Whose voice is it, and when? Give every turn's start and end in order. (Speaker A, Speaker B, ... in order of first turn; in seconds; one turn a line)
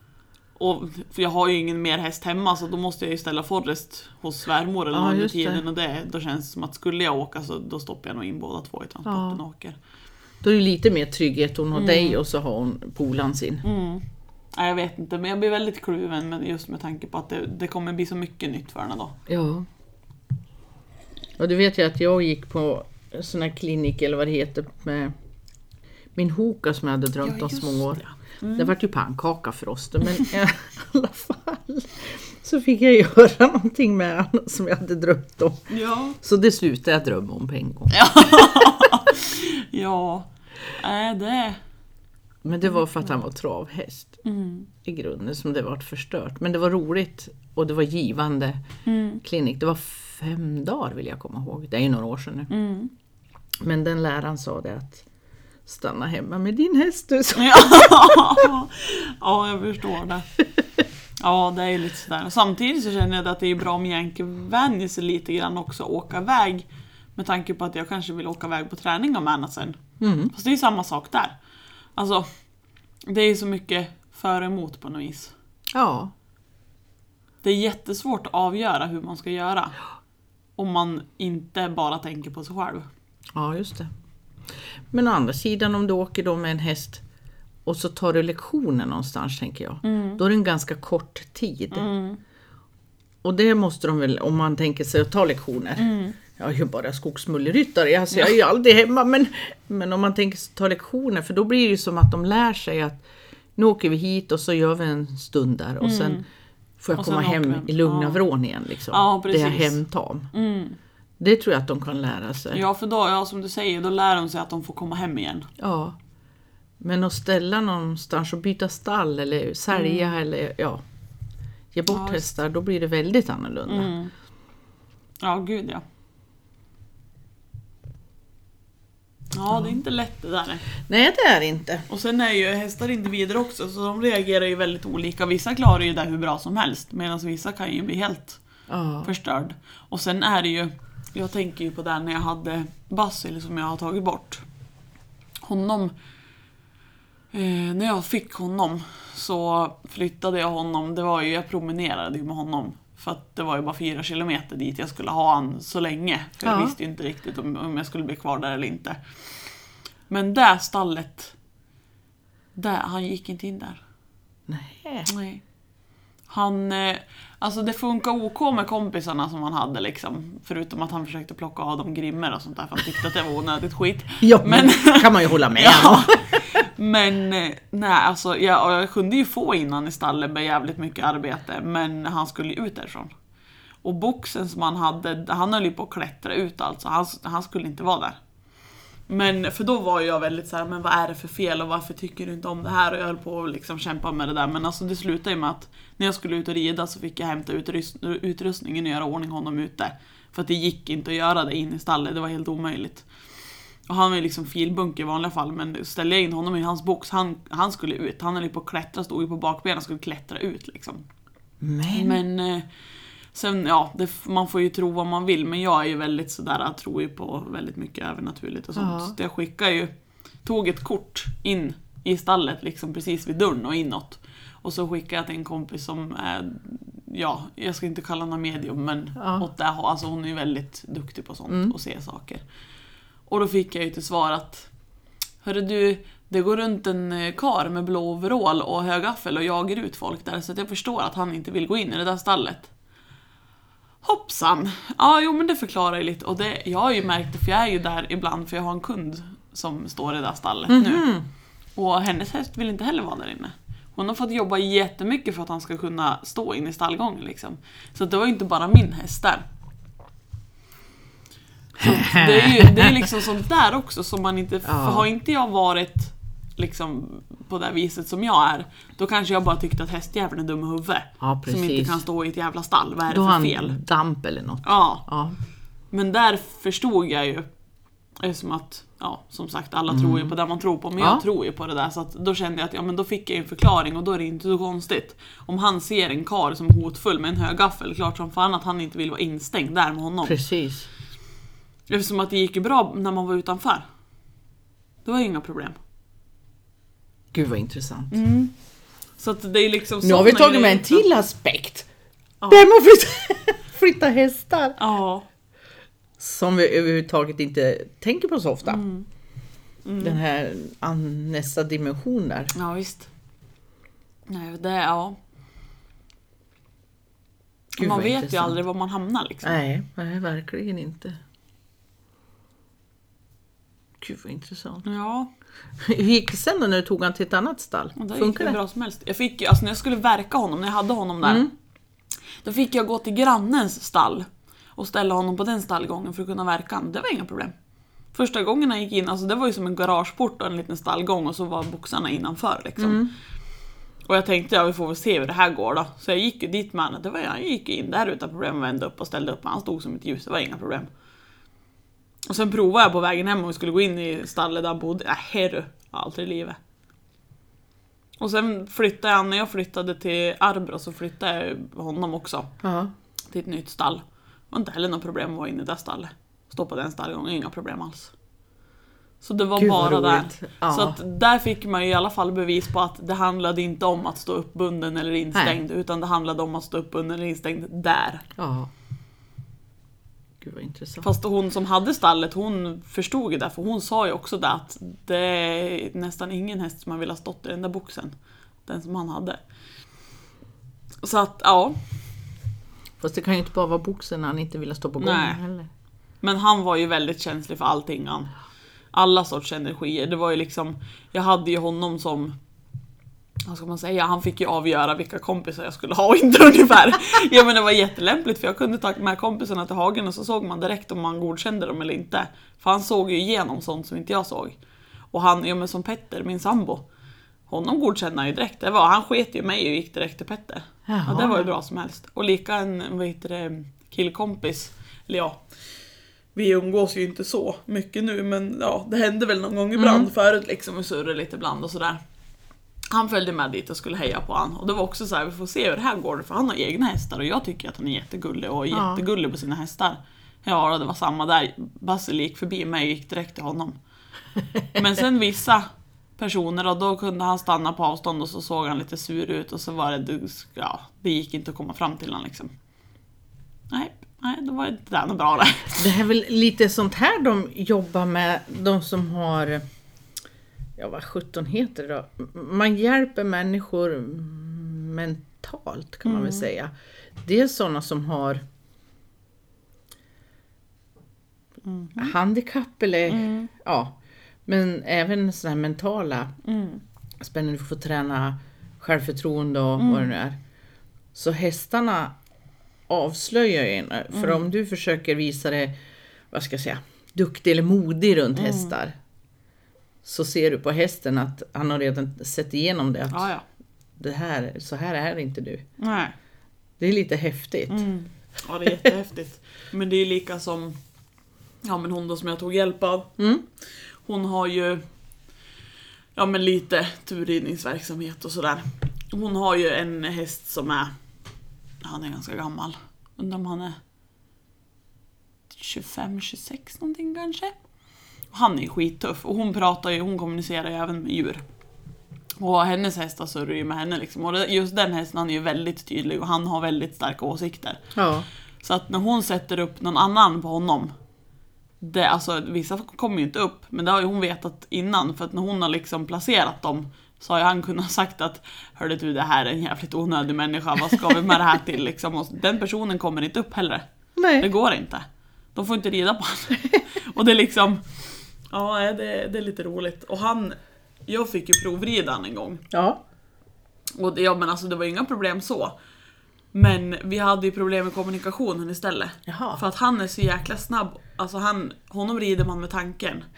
Speaker A: 0.6-9.8
Speaker B: 4.9-5.6
Speaker B: 9.1-9.4
Speaker B: 10.4-13.6
Speaker A: 11.7-12.2
Speaker A: 13.6-14.0
Speaker A: 14.5-19.2
Speaker B: 19.3-19.7
Speaker B: 21.4-25.1
Speaker B: 26.1-35.7
Speaker A: 27.2-28.7
Speaker A: 35.7-36.2
Speaker B: 36.2-38.7
Speaker A: 37.9-41.6
Speaker B: 42.4-44.2
Speaker A: 44.2-44.7
Speaker B: 44.8-48.6
Speaker A: 48.9-49.2
Speaker B: 49.2-52.5
Speaker A: 52.5-52.9
Speaker B: 53.6-55.0
Speaker B: 55.6-58.5
Speaker A: 57.4-60.2
Speaker A: 61.2-69.8
Speaker B: 70.0-70.3
Speaker A: 70.3-71.4
Speaker A: 72.0-72.3
Speaker A: 73.1-75.3
Speaker B: 75.7-76.1
Speaker A: 77.4-79.8
Speaker A: 80.6-82.9
Speaker B: 83.3-83.9
Speaker B: 84.9-87.0
Speaker B: 87.6-91.9
Speaker A: 89.8-90.2
Speaker A: 91.7-92.2
Speaker B: 93.2-103.0
Speaker A: 95.8-96.2
Speaker B: 103.5-106.2
Speaker A: 105.8-106.2
Speaker B: 106.8-110.3
Speaker A: 107.0-108.2
Speaker A: 108.9-109.8
Speaker A: 110.3-110.8
Speaker B: 111.2-112.6
Speaker A: 112.5-115.5
Speaker B: 115.6-116.0
Speaker B: 116.8-120.8
Speaker A: 119.7-120.1
Speaker B: 121.7-123.9
Speaker A: 121.9-122.3
Speaker A: 123.7-124.1
Speaker A: 125.2-125.8
Speaker A: 129.3-130.6
Speaker B: 130.8-131.8
Speaker A: 131.9-138.4
Speaker B: 138.7-139.1
Speaker A: 139.0-144.4
Speaker A: 145.4-145.9
Speaker A: 147.3-159.0
Speaker B: 156.4-156.7
Speaker A: 160.1-161.3
Speaker A: 162.5-163.8
Speaker B: 164.5-165.1
Speaker A: 165.1-165.4
Speaker A: 166.3-183.1
Speaker B: 174.2-176.3
Speaker A: 183.8-188.2
Speaker A: 189.1-203.1
Speaker A: 203.9-211.0
Speaker B: 211.6-212.2
Speaker A: 211.9-212.7
Speaker A: 213.3-219.9
Speaker B: 218.7-219.2
Speaker A: 220.4-232.4
Speaker B: 229.2-229.4
Speaker B: 231.5-231.7
Speaker A: 233.3-234.7
Speaker A: 235.4-242.7
Speaker A: 244.0-251.1
Speaker B: 250.7-251.2
Speaker A: 251.8-259.4
Speaker A: 261.8-273.8
Speaker B: 261.8-263.1
Speaker B: 264.6-265.1
Speaker B: 271.2-272.0
Speaker B: 273.1-275.4
Speaker A: 274.6-275.1
Speaker A: 275.9-277.5
Speaker A: 278.2-290.4
Speaker B: 279.9-280.3
Speaker B: 281.0-281.2
Speaker B: 290.2-290.9
Speaker A: 291.9-293.8
Speaker A: 295.0-295.8
Speaker B: 297.3-298.2
Speaker A: 298.1-298.5
Speaker A: 299.2-301.1
Speaker B: 300.0-301.9
Speaker B: 302.5-304.8
Speaker A: 304.8-305.2
Speaker B: 306.2-308.8
Speaker A: 308.7-309.1
Speaker A: 309.8-310.2
Speaker B: 310.0-312.5
Speaker A: 312.5-313.1
Speaker A: 314.3-315.2
Speaker B: 317.8-318.6
Speaker A: 317.8-319.6
Speaker B: 319.4-321.2
Speaker B: 324.0-324.8
Speaker A: 324.8-325.3
Speaker B: 325.8-328.6
Speaker A: 327.9-331.5
Speaker B: 331.2-331.5
Speaker A: 332.4-337.5
Speaker A: 338.1-343.1
Speaker B: 342.8-343.1
Speaker A: 344.1-350.9
Speaker A: 352.3-356.6
Speaker A: 358.2-362.5
Speaker B: 362.6-362.9
Speaker A: 363.3-368.1
Speaker A: 369.2-378.2
Speaker B: 369.6-371.0
Speaker B: 378.4-378.7
Speaker B: 380.4-381.1
Speaker A: 381.0-388.1
Speaker A: 388.7-389.4
Speaker A: 391.0-391.8
Speaker B: 393.0-395.7
Speaker A: 395.0-395.4
Speaker A: 396.2-398.3
Speaker A: 398.9-402.4
Speaker A: 403.4-414.6
Speaker A: 415.1-416.8
Speaker A: 417.5-425.4
Speaker B: 420.9-421.5
Speaker A: 426.3-432.0
Speaker B: 429.8-430.1
Speaker A: 432.9-443.8
Speaker B: 438.7-439.0
Speaker A: 444.7-452.5
Speaker A: 453.7-455.9
Speaker B: 455.8-459.6
Speaker B: 460.8-468.4
Speaker A: 466.0-466.5
Speaker A: 471.6-472.1
Speaker B: 472.0-476.3
Speaker A: 473.1-473.5
Speaker A: 476.4-476.8
Speaker B: 477.2-480.4
Speaker A: 479.8-480.1
Speaker B: 481.1-482.1
Speaker B: 482.9-485.7
Speaker A: 484.1-484.4
Speaker B: 486.3-488.9
Speaker A: 488.3-488.7
Speaker B: 490.0-493.3
Speaker A: 493.1-493.4
Speaker B: 494.0-495.6
Speaker A: 495.8-496.1
Speaker B: 496.8-497.9
Speaker A: 497.7-500.8
Speaker A: 501.6-503.1
Speaker B: 503.2-503.4
Speaker A: 504.0-504.8
Speaker A: 506.1-510.9
Speaker A: 511.8-513.8
Speaker A: 515.5-517.5
Speaker A: 518.3-521.4
Speaker A: 522.4-527.8
Speaker B: 527.9-528.3
Speaker A: 528.6-530.9
Speaker A: 531.8-543.9
Speaker B: 544.2-544.5
Speaker A: 544.4-547.8
Speaker A: 548.5-550.5
Speaker A: 551.1-552.6
Speaker B: 552.7-553.0
Speaker A: 554.0-555.7
Speaker A: 556.5-563.3
Speaker B: 559.2-559.6